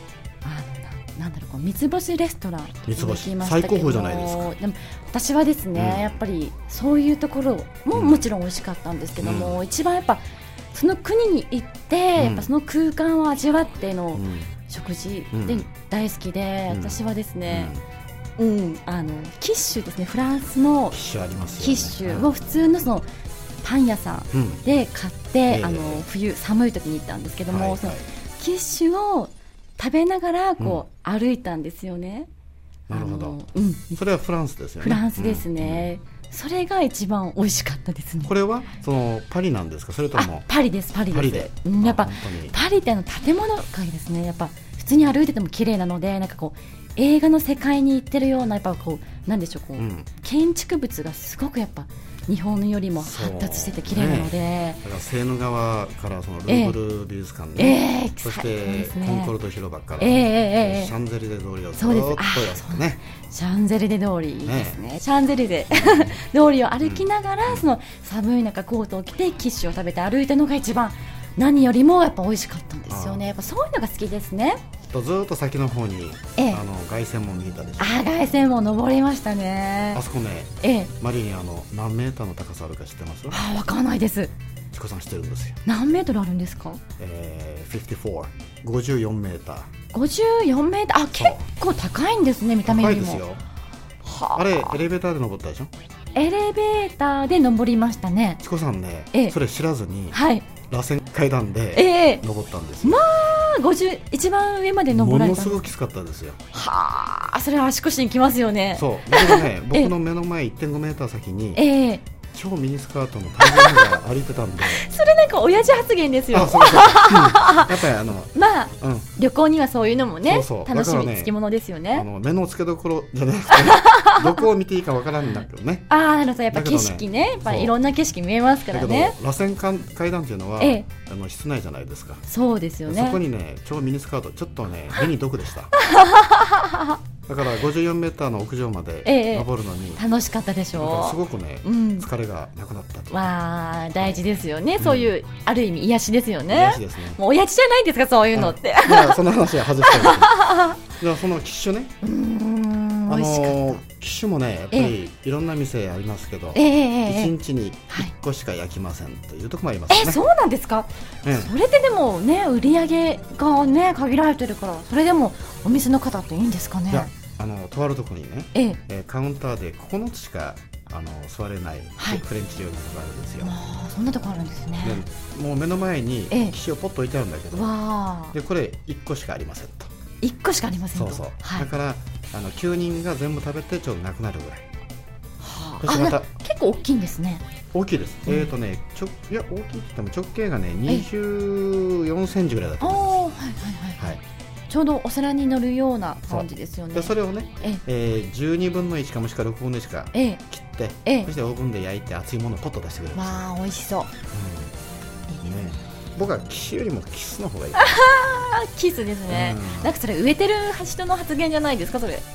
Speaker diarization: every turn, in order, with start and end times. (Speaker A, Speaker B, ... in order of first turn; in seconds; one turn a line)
Speaker A: 0.4-10.2
Speaker B: 2.9-4.5
Speaker B: 5.8-6.2
Speaker B: 7.9-8.3
Speaker B: 9.2-9.6
Speaker A: 10.7-17.7
Speaker B: 12.2-12.5
Speaker B: 14.2-14.5
Speaker B: 15.3-15.7
Speaker B: 16.7-17.8
Speaker A: 18.4-21.0
Speaker B: 20.9-22.4
Speaker A: 21.6-23.1
Speaker A: 23.6-32.3
Speaker B: 24.3-24.6
Speaker B: 25.5-26.1
Speaker B: 27.5-28.1
Speaker B: 30.6-30.8
Speaker B: 32.9-33.4
Speaker A: 32.9-34.0
Speaker B: 34.0-35.9
Speaker A: 34.8-38.3
Speaker B: 38.2-40.5
Speaker A: 40.1-54.8
Speaker B: 41.1-42.6
Speaker B: 49.8-50.1
Speaker B: 53.0-63.0
Speaker A: 56.5-56.8
Speaker A: 57.6-59.3
Speaker A: 60.0-60.9
Speaker A: 61.8-74.6
Speaker B: 64.5-64.8
Speaker B: 65.7-66.2
Speaker B: 66.8-67.7
Speaker B: 72.9-73.2
Speaker B: 74.9-78.0
Speaker A: 77.8-80.0
Speaker B: 79.9-83.4
Speaker A: 80.6-80.9
Speaker A: 83.3-84.3
Speaker B: 84.7-85.6
Speaker A: 85.7-86.8
Speaker B: 87.0-89.7
Speaker A: 89.9-93.2
Speaker B: 91.2-91.4
Speaker B: 92.7-93.4
Speaker A: 94.0-94.8
Speaker B: 94.3-95.7
Speaker A: 96.2-98.4
Speaker B: 98.4-103.1
Speaker A: 100.1-100.5
Speaker A: 101.7-102.2
Speaker A: 102.8-105.7
Speaker B: 104.9-106.4
Speaker A: 106.5-109.9
Speaker B: 108.8-111.6
Speaker A: 111.5-112.0
Speaker B: 112.3-114.8
Speaker A: 113.4-113.9
Speaker A: 114.6-122.1
Speaker B: 116.3-119.1
Speaker B: 120.2-121.3
Speaker B: 121.9-125.9
Speaker A: 123.5-124.4
Speaker A: 125.9-129.2
Speaker B: 126.5-127.8
Speaker B: 128.7-132.2
Speaker A: 130.6-130.9
Speaker A: 132.3-133.2
Speaker B: 132.9-135.7
Speaker A: 135.8-137.0
Speaker B: 137.3-140.0
Speaker A: 139.1-142.1
Speaker B: 140.8-143.3
Speaker A: 143.1-149.2
Speaker B: 144.8-145.1
Speaker B: 146.5-147.2
Speaker B: 148.3-151.9
Speaker A: 149.8-150.8
Speaker A: 152.0-153.8
Speaker B: 153.1-160.2
Speaker A: 156.5-157.3
Speaker A: 159.9-167.1
Speaker B: 161.2-161.5
Speaker B: 166.9-173.6
Speaker A: 173.4-175.1
Speaker B: 174.8-177.8
Speaker A: 177.5-178.4
Speaker B: 178.3-179.9
Speaker A: 180.2-181.7
Speaker B: 180.9-184.7
Speaker A: 185.4-187.4
Speaker B: 185.8-186.3
Speaker B: 187.7-193.2
Speaker A: 192.8-197.8
Speaker B: 196.3-203.4
Speaker A: 200.1-200.4
Speaker A: 201.1-201.3
Speaker A: 203.1-204.1
Speaker B: 204.3-204.7
Speaker B: 205.4-208.0
Speaker A: 207.8-212.2
Speaker B: 209.3-209.9